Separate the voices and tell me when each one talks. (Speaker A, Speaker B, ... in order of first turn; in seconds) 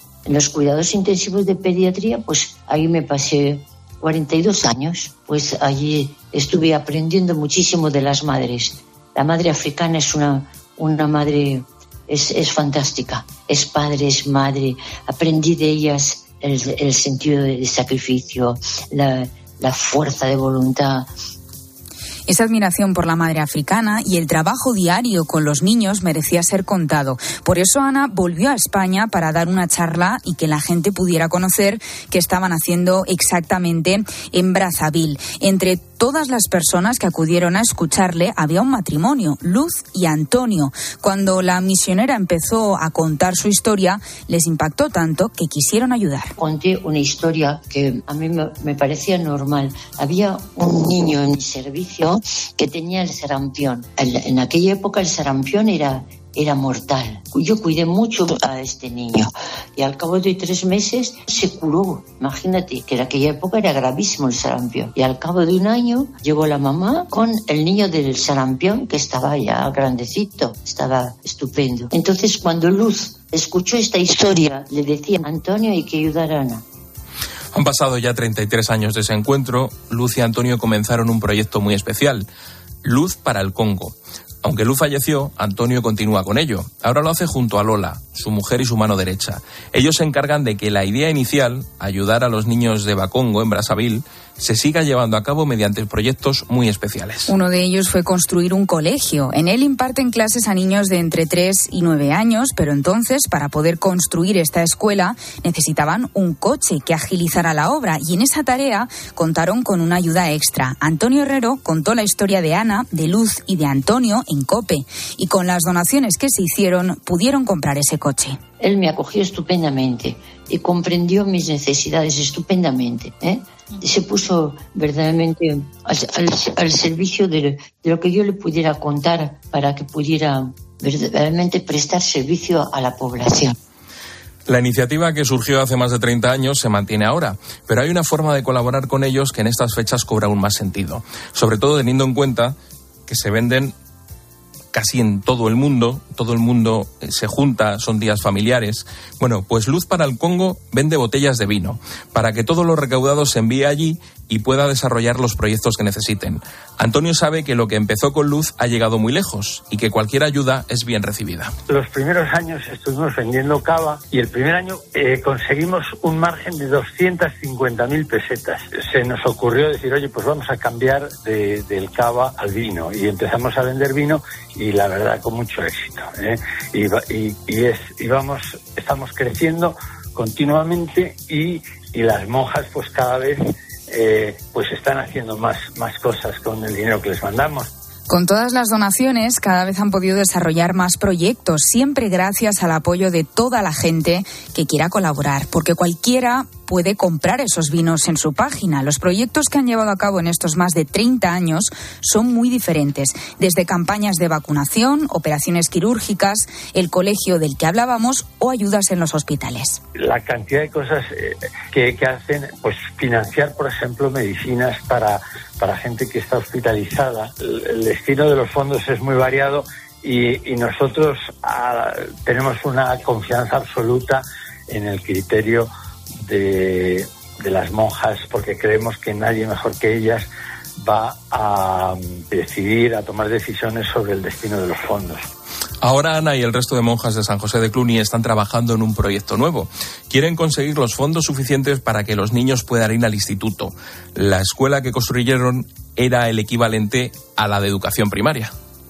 Speaker A: 0.3-21.1, 46.4-76.6, 118.6-133.6
Speaker B: 22.3-46.3, 97.3-118.4, 188.1-209.8
Speaker C: 77.5-82.3, 82.8-97.3, 134.5-142.6, 143.1-143.8, 144.7-161.5, 235.8-248.5
Speaker D: 161.7-187.7, 210.0-225.7, 226.2-230.3, 230.8-235.2